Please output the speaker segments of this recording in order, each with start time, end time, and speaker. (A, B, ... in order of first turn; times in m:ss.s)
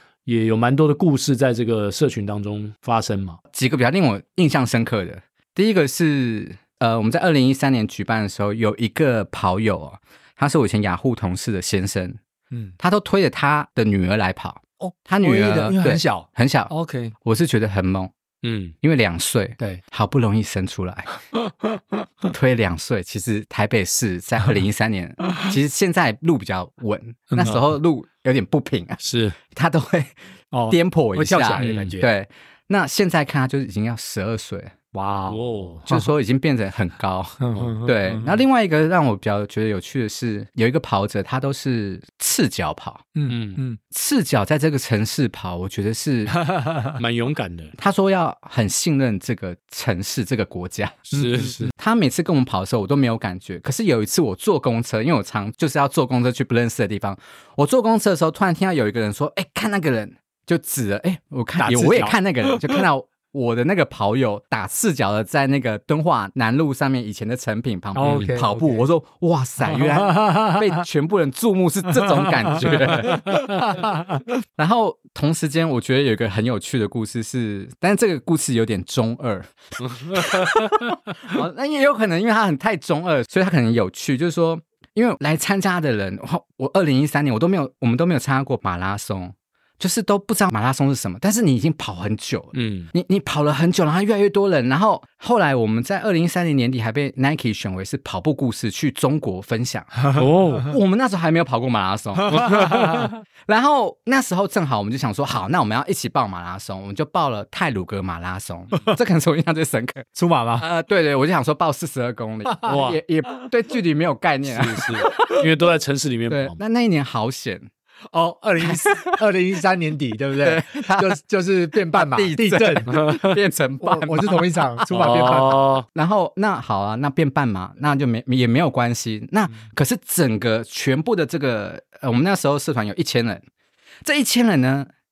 0:00.2-0:03.4 A
0:03.5-0:12.2 B
0:12.8-0:16.7 B
0:14.8-0:17.1 C
0:17.2-0:18.1 B
0:18.4-0:18.7 A
0:18.8-0:21.2 B
0:22.2-0:29.0 B
0:27.3-0:27.6 C
0:29.0-0:29.4 A
0:29.5-0:30.1 B
0:30.5-0:32.1 C
0:30.7-0:34.7 B
0:31.6-0:31.9 A
0:34.9-0:36.1 C
0:35.3-0:35.8 A
0:35.9-0:43.1 B
0:37.4-0:37.7 C
0:37.6-0:38.2 A
0:43.1-0:43.8 C
0:43.3-0:43.6 A
0:43.9-0:46.4 B
0:46.4-0:46.9 C
0:47.0-0:47.7 A
0:47.8-1:14.0 B
0:51.1-0:51.7 A
0:51.3-0:51.6 C
1:01.6-1:02.8 C
1:07.9-1:08.8 C
1:08.0-1:08.3 A
1:09.6-1:10.8 C
1:12.4-1:14.2 C
1:14.6-1:40.1 B
1:19.8-1:20.7 A
1:32.5-1:32.9 A
1:40.2-1:40.7 A
1:40.6-1:50.0 B
1:42.3-1:43.1 A
1:42.6-1:43.0 C
1:50.1-1:50.6 C
1:50.6-1:55.4 B
1:52.6-1:53.0 A
1:54.4-1:56.6 A
1:56.3-1:57.7 B
1:58.1-2:02.9 C
1:58.6-1:59.2 B
2:00.4-2:01.2 B
2:01.9-2:13.4 B
2:02.9-2:03.4 A
2:03.8-2:05.6 C
2:04.9-2:05.8 A
2:14.0-2:14.9 B